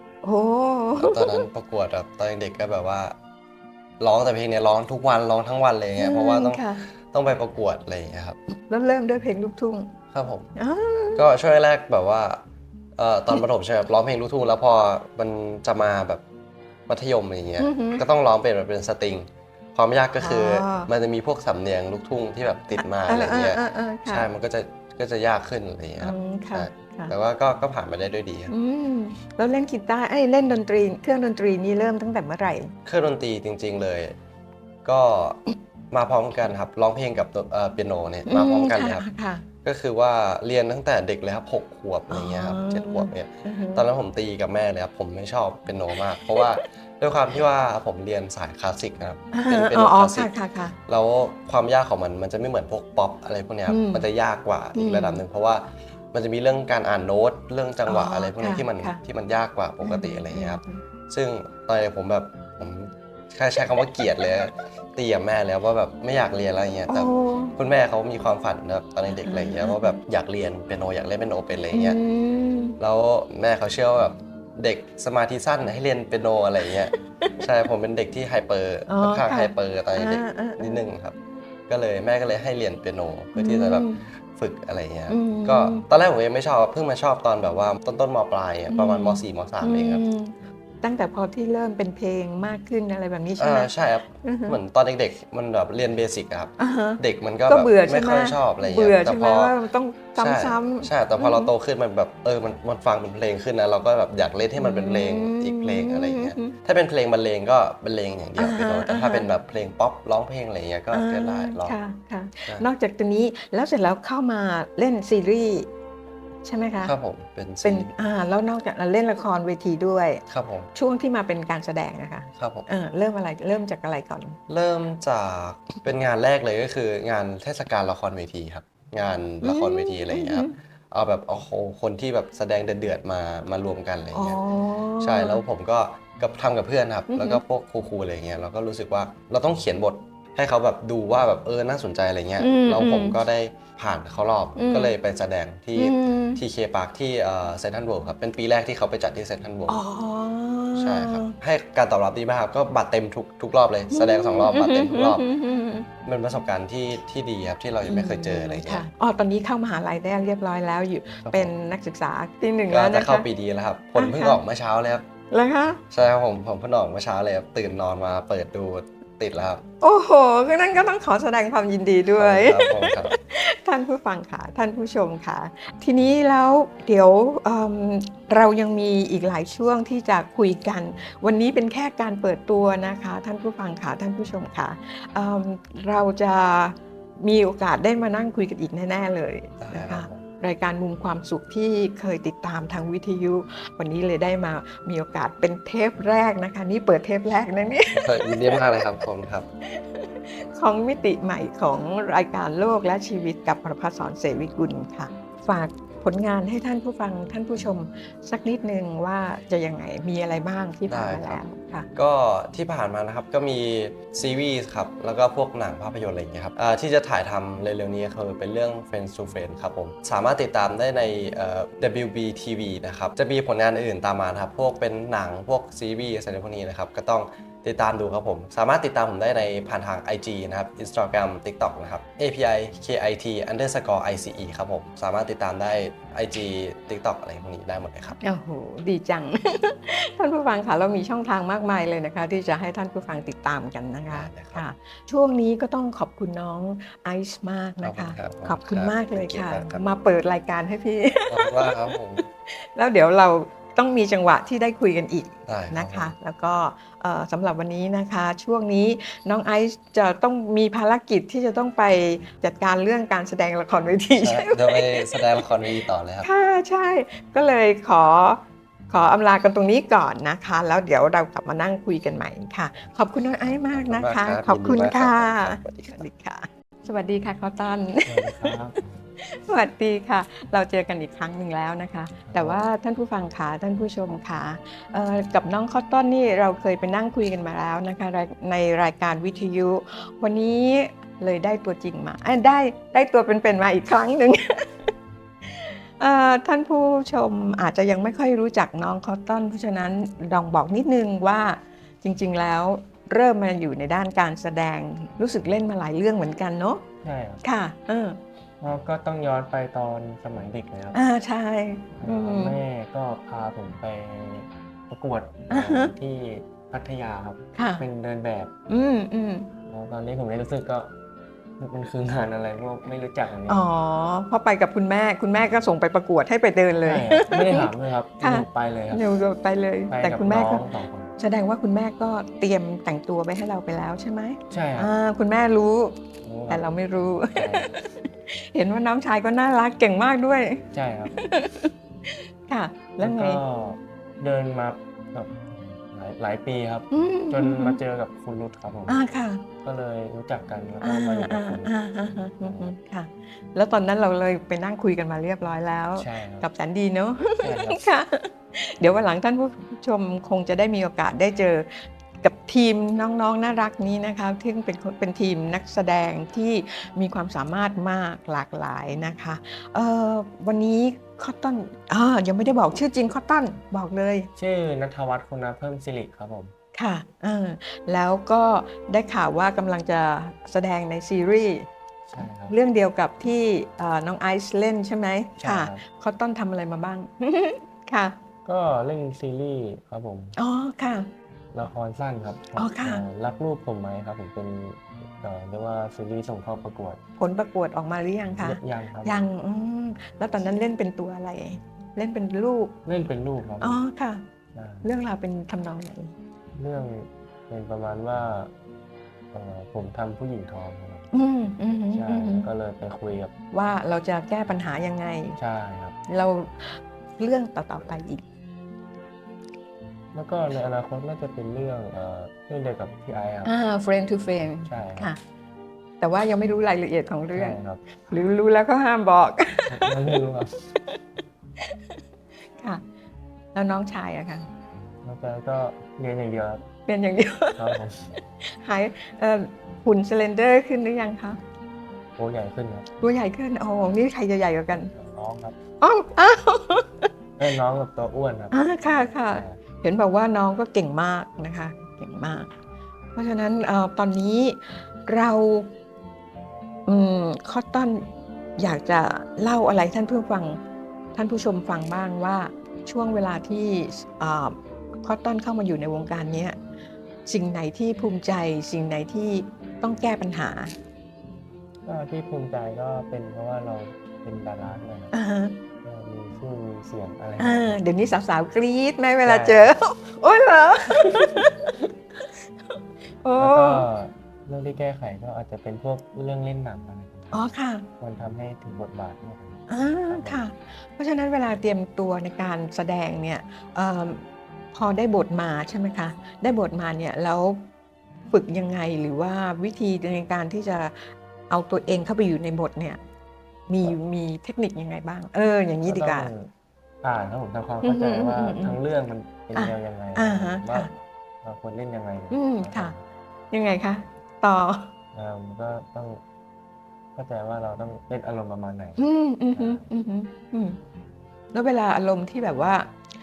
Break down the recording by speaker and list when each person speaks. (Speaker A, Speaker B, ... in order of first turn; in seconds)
Speaker A: 0.2-1.5, 6.0-6.8, 8.7-9.9, 10.6-11.2, 17.6-18.0, 20.2-20.9, 22.8-24.3, 26.0-27.1, 28.5-32.7, 38.3-39.5, 42.1-43.9, 45.9-46.5, 49.3-50.8, 53.7-54.1, 54.7-55.2, 57.9-59.0, 59.8-60.8, 66.9-67.5, 69.1-70.0, 71.7-72.8, 76.6-77.5, 78.9-80.9, 83.4-84.0, 85.1-85.9, 88.7-94.6, 96.6-101.5, 104.6-106.5, 108.4-109.3, 110.9-115.7, 116.5-117.0, 117.6-120.2, 120.8-124.4, 129.4-130.6, 134.1-135.4, 137.1-137.4, 142.4-143.2, 144.6-144.9, 145.8-146.4, 149.7-151.4, 153.9-155.9, 157.8-163.3, 163.9-164.4, 165.3-165.8, 169.8-198.6, 199.7-211.9, 238.2-251.8, 252.5-278.6, 279.2-294.9, 295.5-306.8, 307.4-308.2, 310.9-312.6, 315.5-315.9, 317.6-317.9, 318.7-319.5, 323.5-330.6, 331.2-343.4, 346.9-347.8, 348.9-349.5, 350.8-374.3, 376.8-381.7, 382.2-388.2, 390.4-391.1, 392.6-393.0, 397.2-402.8, 403.6-404.2, 404.8-406.1, 411.1-412.5, 413.5-415.4, 416.1-418.2, 423.4-425.2, 426.0-430.2, 433.6-434.5, 436.9-437.8, 438.4-441.4, 443.0-444.9, 445.8-447.1, 448.5-452.5, 453.1-455.7, 456.9-460.6, 461.1-466.6, 467.3-470.7, 475.1-475.6, 477.4-481.9, 483.2-483.9, 487.3-487.9, 489.7-494.2, 494.7-497.6, 498.3-503.0, 503.7-506.3, 507.8-508.8, 509.6-510.9, 512.3-513.0, 513.5-514.9, 519.0-520.8, 521.5-522.9
Speaker B: 1.0-3.2, 4.0-8.4, 10.1-10.5, 11.2-12.4, 13.0-16.2, 16.9-28.5, 32.9-34.1, 34.9-39.1, 39.6-50.3, 50.9-72.0, 72.8-81.2, 81.7-90.0, 93.4-99.6, 100.2-111.8, 116.8-117.9, 120.3-120.7, 122.4-122.7, 124.5-134.4, 135.0-149.8, 150.8-155.2, 156.1-158.9, 161.2-161.5, 162.7-165.1, 165.9-169.6, 172.2-173.2, 189.6-190.2, 197.9-199.5, 210.9-211.4, 211.9-238.2, 244.1-244.6, 247.8-249.8, 251.3-252.2, 255.5-256.1, 264.1-266.3, 273.7-276.1
Speaker C: 278.1-278.8, 282.3-282.6, 307.0-307.4, 308.6-311.0, 312.0-318.5, 319.7-320.9, 321.6-323.6, 326.8-329.0, 329.9-331.1, 334.5-334.9, 336.2-336.7, 337.3-337.7, 340.7-341.2, 343.0-349.0, 349.6-351.7, 352.4-352.7, 356.0-356.5, 357.4-357.8, 374.4-376.5, 382.1-382.6, 385.4-385.8, 388.4-390.4, 391.5-397.0, 398.4-399.2, 402.9-403.8, 404.6-404.9, 406.6-408.5, 409.3-411.1, 411.9-413.3, 415.4-416.0, 420.1-423.5, 424.6-425.1, 427.3-427.8, 429.7-430.7, 435.0-436.6, 437.6-438.2, 442.2-442.9, 444.9-445.6, 447.4-448.6, 449.3-449.6, 471.8-475.1, 475.8-477.8, 479.2-479.7, 483.4-490.4, 505.9-506.5, 507.0-510.9, 511.4-513.0, 515.1-516.2, 517.2-519.0, 519.5-519.9